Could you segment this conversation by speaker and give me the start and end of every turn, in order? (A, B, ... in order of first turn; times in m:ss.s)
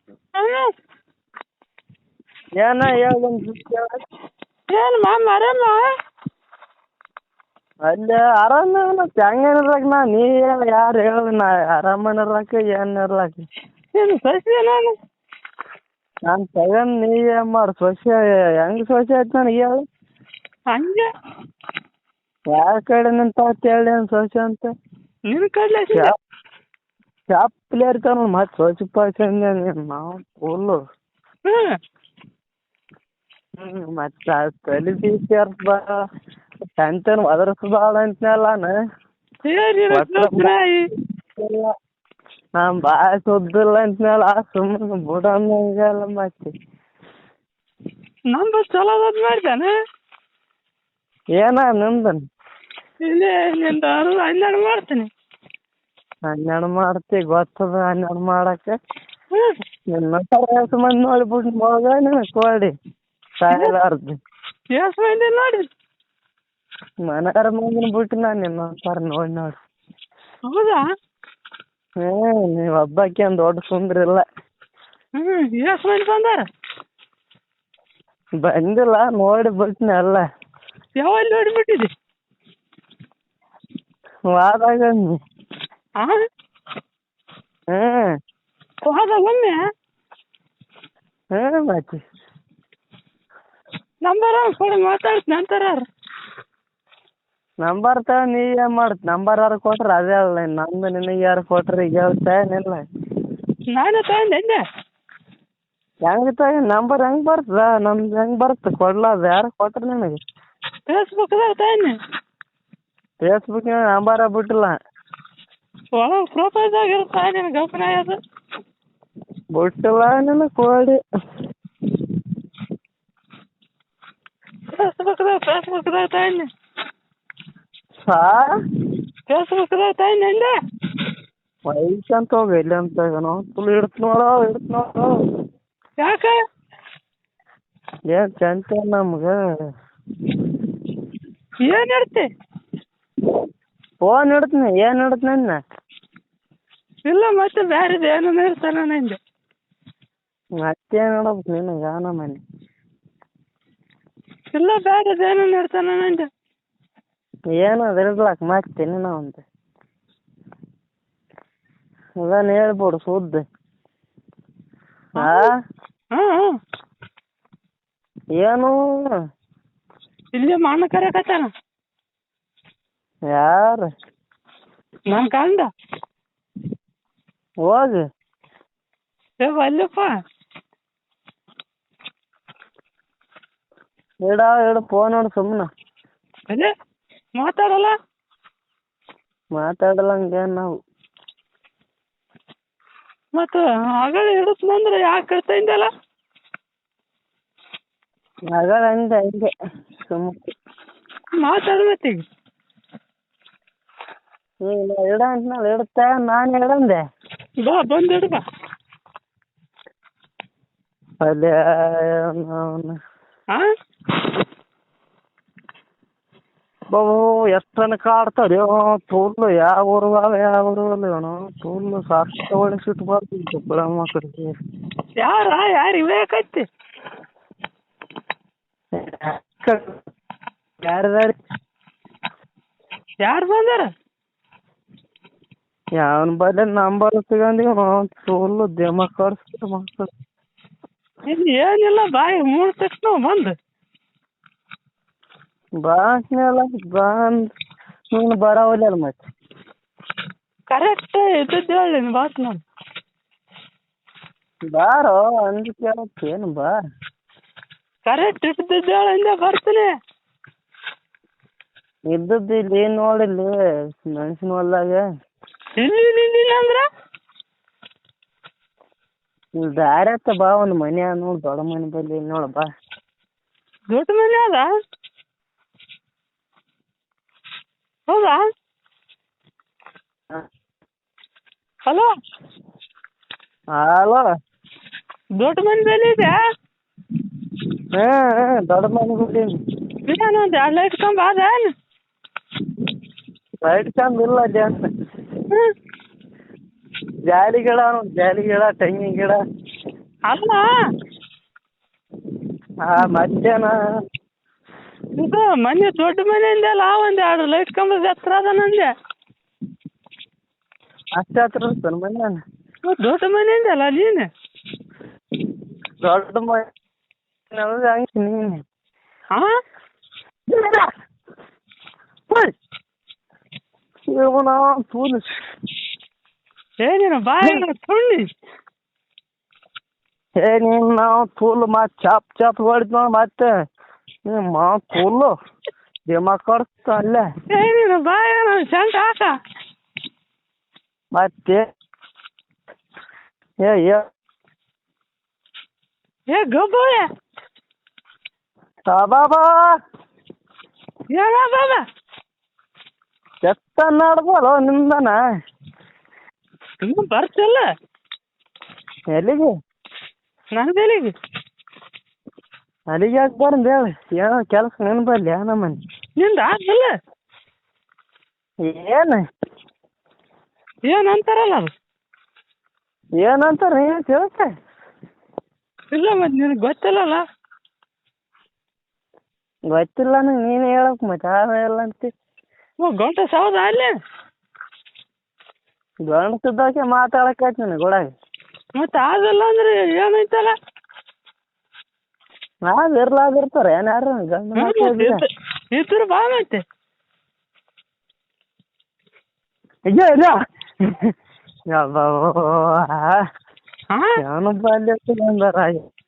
0:00.4-0:00.7 A
0:02.6-0:04.0 B
0:04.7-0:05.9 A
0:07.9-0:13.5 B
0:14.0-0:14.9 A
0:16.3-0:19.8 B
0:20.7-0:21.1 A
0:22.5-0:24.7 B
0:25.3-0:26.1 A
0:27.3-0:30.8 B
0:31.5-0:31.8 A
0:33.6-0:35.9 B
0:36.8-0:38.7 B
0:39.5-0:40.8 A
0:39.9-0:40.6 B
0:41.4-0:41.7 B
0:42.6-0:46.5 B
0:48.3-0:49.7 A
0:51.4-0:52.2 B
0:53.0-0:55.1 A
0:56.3-0:58.8 B
0:59.9-1:02.7 B
1:03.4-1:04.2 B
1:04.8-1:05.6 A
1:07.1-1:09.6 B
1:10.5-1:10.8 A
1:12.0-1:14.2 B
1:15.2-1:16.5 A
1:18.4-1:20.2 B
1:21.0-1:21.9 A
1:24.3-1:25.2 B
1:27.7-1:28.1 B
1:28.8-1:29.6 A
1:31.4-1:32.0 B
1:34.0-1:35.8 A
1:37.6-1:42.8 B
1:43.7-1:44.6 A
1:46.1-1:50.2 B
1:50.9-1:52.0 A
1:53.2-1:54.8 B
1:56.0-1:58.2 A
1:59.5-2:01.0 B
2:04.7-2:06.5 A
2:08.1-2:08.5 B
2:09.3-2:10.5 A
2:11.7-2:15.1 B
2:16.0-2:16.4 A
2:18.1-2:19.4 B
2:21.6-2:22.3 A
2:24.0-2:25.6 B
2:27.1-2:29.2 A
2:30.6-2:32.4 B
2:34.5-2:36.3 A
2:37.5-2:39.4 B
2:42.2-2:43.4 B
2:45.2-2:45.5 A
2:45.2-2:45.5 B
2:46.1-2:46.6 A
2:48.4-2:48.8 B
2:50.4-2:51.5 A
2:53.3-2:53.9 B
2:55.1-2:55.7 A
2:57.6-2:58.0 B
2:59.4-3:00.1 A
3:04.3-3:05.7 B
3:07.4-3:07.9 A
3:09.6-3:10.7 B
3:13.4-3:15.9 A
3:18.5-3:19.5 B
3:20.1-3:20.5 B
3:21.4-3:22.2 A
3:24.6-3:27.0 B
3:27.6-3:28.4 A
3:31.2-3:33.0 B
3:36.9-3:44.6 B
3:45.2-3:46.7 A
3:49.0-3:50.0 B
3:50.8-3:51.4 B
3:53.2-3:53.9 A
3:56.0-4:00.1 B
4:01.3-4:03.6 A
4:05.8-4:07.5 B
4:08.1-4:09.2 B
4:10.7-4:12.6 A
4:14.7-4:16.7 B
4:18.1-4:19.9 A
4:22.1-4:23.5 B
4:24.0-4:25.0 B
4:25.8-4:26.8 A
4:29.6-4:32.7 B
4:33.9-4:34.7 A
4:38.1-4:38.4 A
4:43.8-4:44.2 B
4:45.4-4:46.4 A
4:48.0-4:49.6 B
4:50.1-4:51.7 A
4:53.6-4:54.9 B
4:57.3-4:59.4 B
5:00.3-5:00.7 A
5:02.8-5:03.8 B
5:05.2-5:08.9 A
5:11.2-5:12.4 B
5:12.9-5:14.3 A
5:16.0-5:16.7 B
5:17.5-5:18.6 B
5:20.5-5:20.9 B
5:24.1-5:25.2 B
5:26.8-5:28.3 A
5:30.4-5:33.5 B
5:34.3-5:35.3 B
5:36.1-5:37.3 B
5:37.5-5:39.4 A
5:41.1-5:41.6 B
5:43.6-5:44.0 B
5:46.3-5:47.1 A
5:48.9-5:49.7 B
5:51.1-5:51.8 A
5:53.4-5:55.2 B
5:56.8-5:57.6 A
5:59.1-5:59.5 B
6:00.6-6:01.1 A
6:02.9-6:05.8 B
6:06.2-6:06.9 A
6:08.6-6:09.2 B
6:10.9-6:11.7 A
6:13.2-6:14.5 B
6:15.9-6:17.2 A
6:19.7-6:22.1 B
6:22.8-6:23.9 A
6:26.1-6:28.1 B
6:28.8-6:30.5 A
6:32.7-6:35.2 B
6:34.6-6:36.6 A
6:39.9-6:41.1 B
6:41.7-6:43.2 B
6:44.2-6:45.8 B